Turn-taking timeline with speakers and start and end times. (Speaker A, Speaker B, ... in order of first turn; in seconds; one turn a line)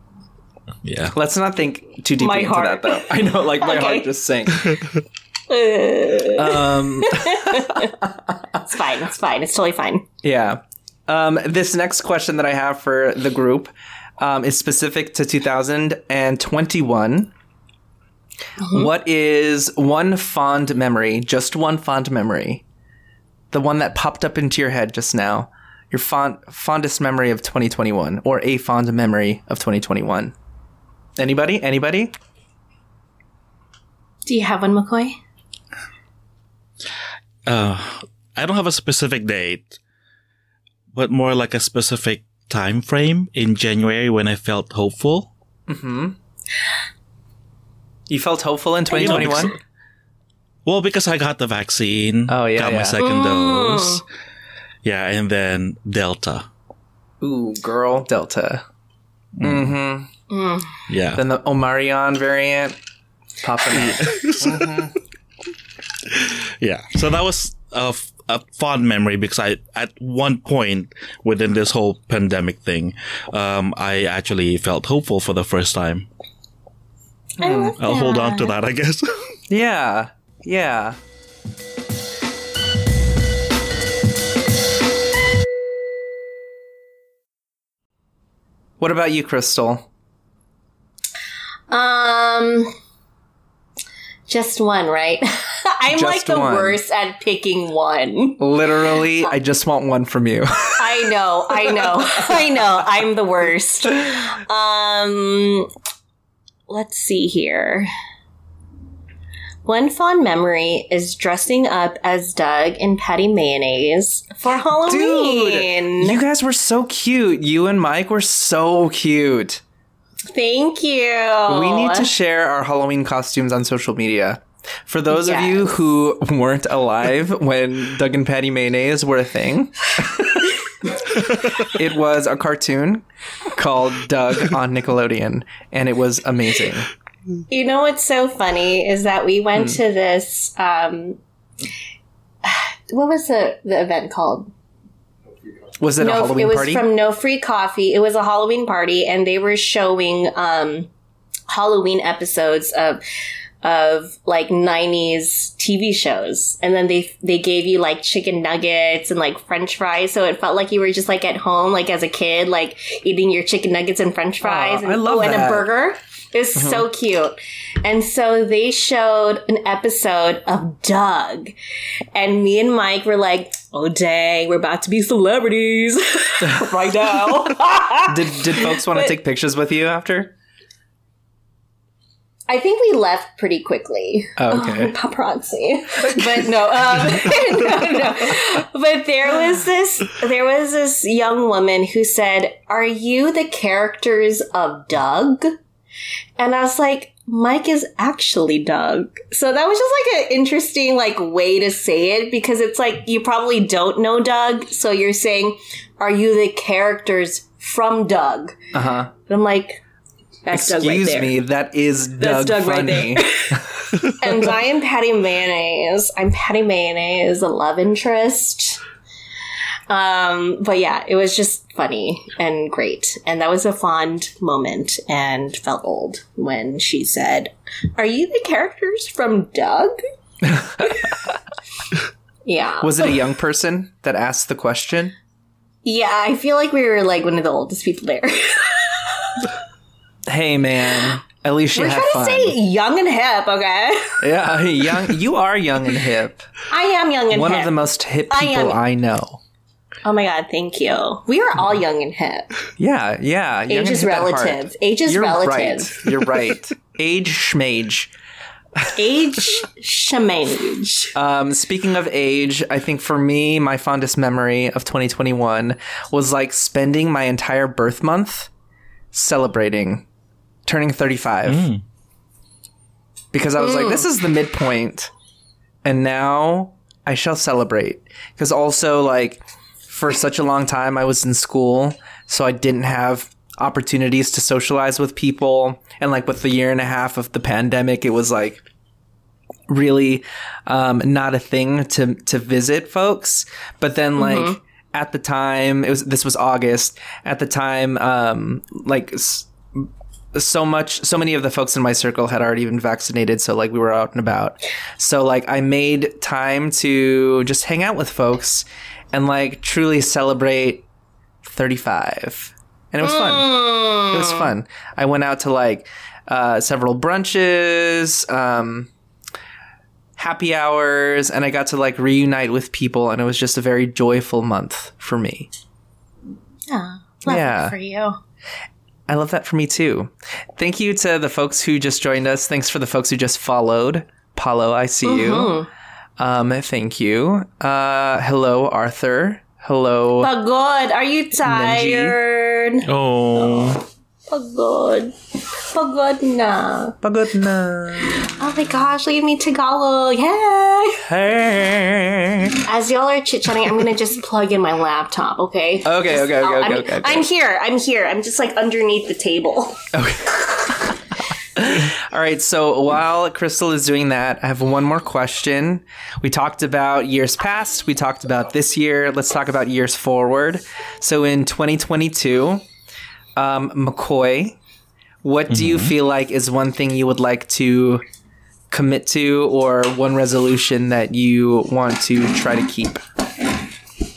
Speaker A: 0.8-1.1
Speaker B: 1.1-4.7
Speaker C: 2.2-4.1
Speaker C: 5.5-7.9
Speaker B: 6.3-8.3
Speaker C: 8.6-10.0
Speaker B: 10.2-17.3
Speaker C: 18.6-18.9
Speaker B: 18.7-22.6
Speaker B: 23.5-30.3
Speaker B: 31.2-32.1
Speaker C: 34.2-35.2
Speaker A: 37.5-39.8
Speaker A: 40.9-45.3
Speaker B: 45.7-46.2
Speaker B: 48.1-49.5
Speaker C: 48.9-49.6
Speaker A: 49.0-49.5
Speaker A: 50.6-54.0
Speaker B: 52.3-53.0
Speaker C: 53.0-54.0
Speaker A: 54.8-56.5
Speaker B: 57.2-58.6
Speaker A: 59.4-59.7
Speaker B: 59.4-60.1
Speaker C: 60.3-60.8
Speaker A: 60.9-61.2
Speaker B: 61.1-62.8
Speaker B: 63.4-65.0
Speaker A: 63.8-64.8
Speaker A: 66.1-76.1
Speaker B: 77.4-77.7
Speaker C: 77.4-78.5
Speaker A: 77.8-79.3
Speaker B: 79.5-81.0
Speaker B: 88.8-89.9
Speaker C: 91.7-92.7
Speaker C: 94.3-98.4
Speaker B: 95.9-96.8
Speaker B: 98.4-101.1
Speaker C: 100.8-105.7
Speaker C: 106.7-107.9
Speaker C: 109.6-116.2
Speaker B: 114.8-119.6
Speaker C: 120.3-122.1
Speaker B: 121.5-136.9
Speaker C: 125.1-125.7
Speaker C: 137.5-141.2
Speaker C: 142.4-144.5
Speaker B: 145.8-146.8
Speaker C: 146.0-150.9
Speaker C: 151.5-153.0
Speaker C: 153.6-171.5
Speaker B: 164.4-165.7
Speaker B: 166.6-166.8
Speaker C: 172.1-179.1
Speaker B: 178.1-180.3
Speaker C: 182.5-195.5
Speaker B: 184.4-184.9
Speaker C: 196.4-208.6
Speaker B: 208.7-209.1
Speaker C: 209.3-209.8
Speaker C: 210.4-211.4
Speaker B: 210.5-213.9
Speaker C: 212.2-218.8
Speaker C: 219.9-229.9
Speaker B: 230.4-231.0
Speaker C: 230.8-231.1
Speaker C: 232.4-233.1
Speaker B: 232.8-235.1
Speaker C: 235.8-239.5
Speaker B: 240.3-242.6
Speaker C: 241.7-244.2
Speaker B: 244.2-246.4
Speaker C: 246.7-247.8
Speaker B: 247.3-249.4
Speaker C: 248.3-248.8
Speaker C: 250.0-252.5
Speaker B: 252.8-258.1
Speaker C: 253.7-256.1
Speaker C: 258.9-261.1
Speaker B: 261.1-268.5
Speaker B: 269.1-270.0
Speaker B: 270.6-271.7
Speaker A: 271.4-271.8
Speaker B: 273.3-275.1
Speaker C: 273.6-274.1
Speaker B: 275.8-288.6
Speaker B: 289.7-310.8
Speaker C: 294.2-294.6
Speaker B: 311.4-318.9
Speaker C: 313.0-314.4
Speaker B: 320.2-325.5
Speaker C: 326.7-328.2
Speaker B: 327.3-327.8
Speaker B: 329.1-335.5
Speaker C: 335.0-335.7
Speaker B: 336.2-340.3
Speaker C: 340.2-347.0
Speaker B: 341.4-342.2
Speaker A: 342.9-343.8
Speaker B: 347.0-348.2
Speaker C: 348.1-351.1
Speaker B: 351.1-352.6
Speaker C: 352.6-359.8
Speaker B: 355.8-357.2
Speaker B: 359.9-360.9
Speaker B: 361.5-372.6
Speaker B: 373.4-374.6
Speaker B: 375.2-378.0
Speaker A: 375.5-375.9
Speaker B: 378.7-383.0